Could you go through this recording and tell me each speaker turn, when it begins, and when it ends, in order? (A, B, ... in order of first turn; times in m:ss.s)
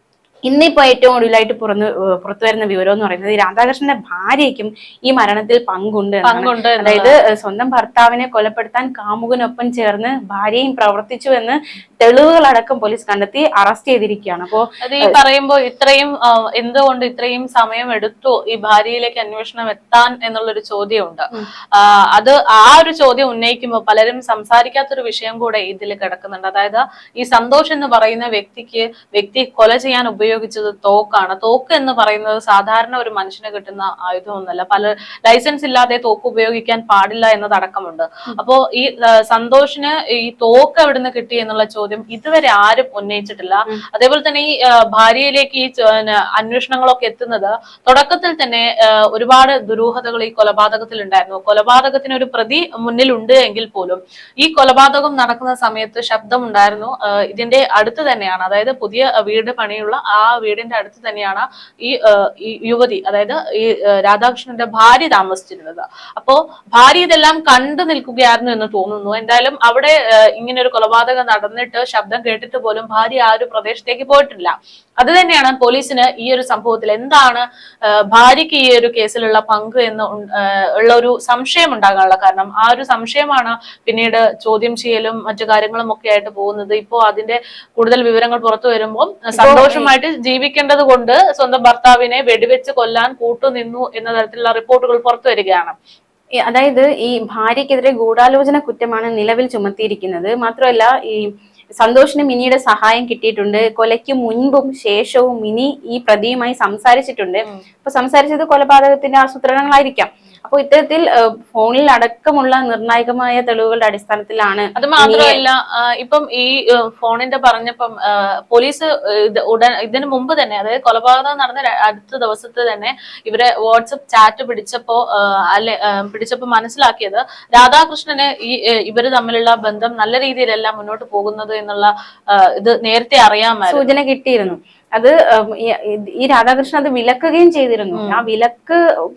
0:00.4-0:15.2 A
0:06.2-0:07.2 B
0:14.8-1:35.8 B
1:29.4-1:29.9 A
1:36.4-1:55.4 A
1:54.8-2:13.9 B
2:13.7-2:18.8 A
2:17.9-2:18.2 B